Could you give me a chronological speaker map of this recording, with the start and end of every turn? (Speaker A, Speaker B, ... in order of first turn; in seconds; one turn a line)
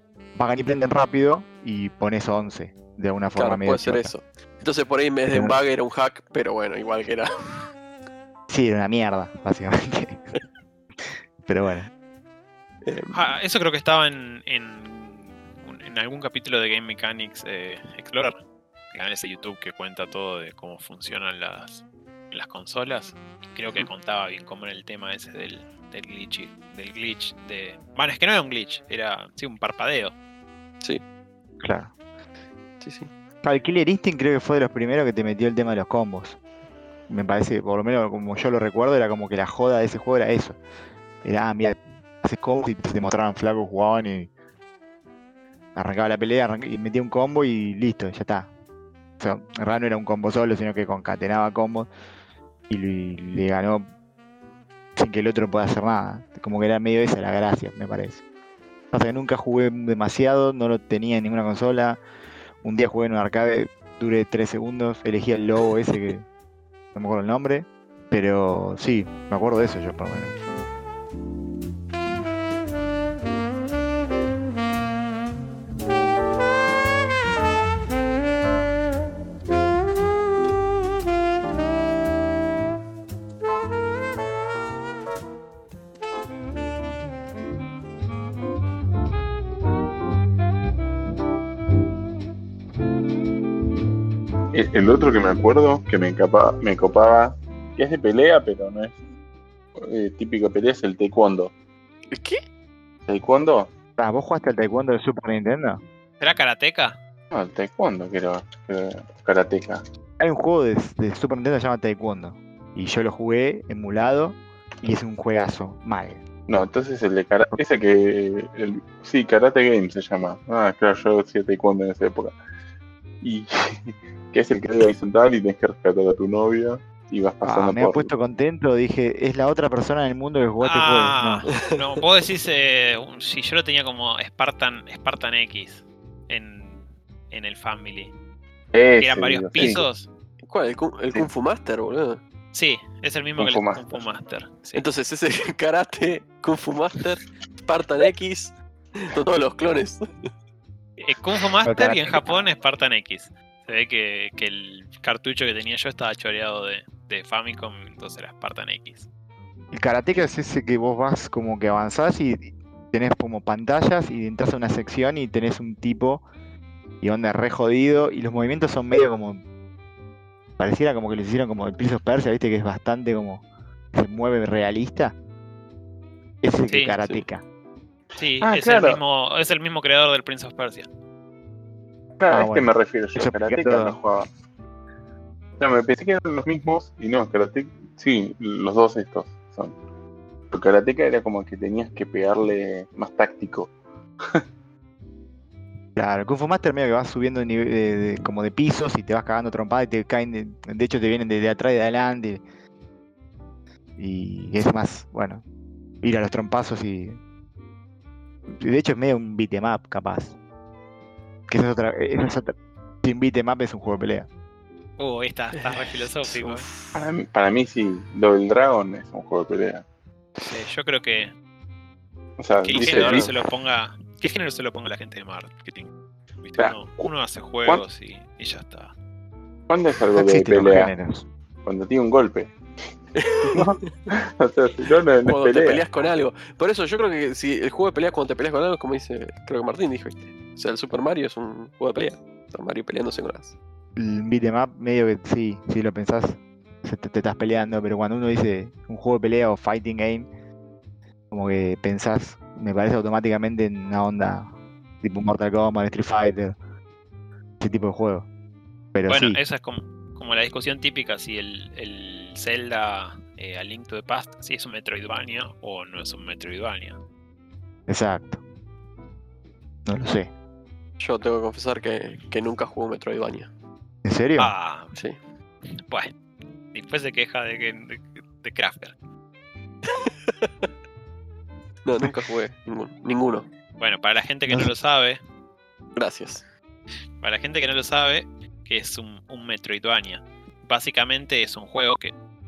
Speaker A: 0.3-4.1
Speaker B: 3.4-7.3
Speaker A: 5.3-5.6
Speaker A: 8.5-10.2
Speaker A: 11.5-11.9
Speaker B: 12.8-13.3
Speaker C: 13.1-18.4
Speaker C: 18.9-30.1
Speaker A: 31.6-31.9
Speaker B: 32.8-33.1
Speaker A: 33.4-36.4
Speaker A: 37.1-40.6
Speaker A: 41.2-44.3
Speaker A: 45.8-48.5
Speaker A: 49.2-51.9
Speaker A: 52.7-53.9
Speaker A: 55.0-58.2
Speaker A: 58.9-62.0
Speaker A: 62.6-66.3
Speaker A: 66.9-70.4
Speaker D: 94.5-99.0
Speaker D: 99.8-101.5
Speaker B: 102.1-102.4
Speaker D: 103.1-103.7
Speaker A: 104.0-105.8
Speaker C: 106.2-107.0
Speaker D: 107.3-109.8
Speaker A: 110.2-116.2
Speaker D: 116.5-122.4
Speaker D: 123.2-128.1
Speaker A: 127.5-131.4
Speaker C: 130.6-138.1
Speaker D: 138.7-139.8
Speaker C: 139.0-140.1
Speaker B: 140.4-142.2
Speaker C: 142.5-144.8
Speaker D: 143.4-144.0
Speaker B: 144.7-150.1
Speaker C: 151.0-159.1
Speaker A: 151.7-152.4
Speaker A: 159.7-166.2
Speaker A: 167.0-169.4
Speaker A: 170.6-175.2
Speaker A: 176.4-177.4
Speaker C: 176.7-177.0
Speaker C: 178.2-180.9
Speaker D: 178.4-179.0
Speaker D: 182.2-184.3
Speaker A: 182.3-184.0
Speaker D: 185.6-189.8
Speaker D: 190.5-193.7
Speaker A: 196.0-202.4
Speaker A: 204.0-205.4
Speaker A: 206.0-207.2
Speaker A: 208.5-210.3
Speaker A: 211.5-214.3
Speaker C: 215.0-216.7
Speaker B: 215.6-216.9
Speaker D: 216.9-219.8
Speaker C: 220.4-221.3
Speaker D: 222.4-223.3
Speaker C: 222.6-225.9
Speaker B: 222.8-223.2
Speaker A: 222.9-223.2
Speaker C: 226.4-228.9
Speaker D: 226.6-227.1
Speaker D: 229.7-230.9
Speaker A: 230.2-231.3
Speaker D: 231.7-232.5
Speaker B: 233.2-233.8
Speaker D: 233.5-235.8
Speaker B: 235.3-243.6
Speaker A: 244.0-250.3
Speaker A: 251.3-256.6
Speaker A: 257.6-258.3
Speaker A: 258.9-259.4
Speaker C: 259.1-267.0
Speaker A: 267.9-268.4
Speaker A: 269.9-270.3
Speaker B: 271.0-273.5
Speaker A: 274.0-274.5
Speaker C: 274.4-274.9
Speaker C: 276.7-278.9
Speaker B: 279.9-280.7
Speaker B: 281.8-283.5
Speaker C: 283.8-285.2
Speaker B: 286.0-286.4
Speaker C: 287.2-292.1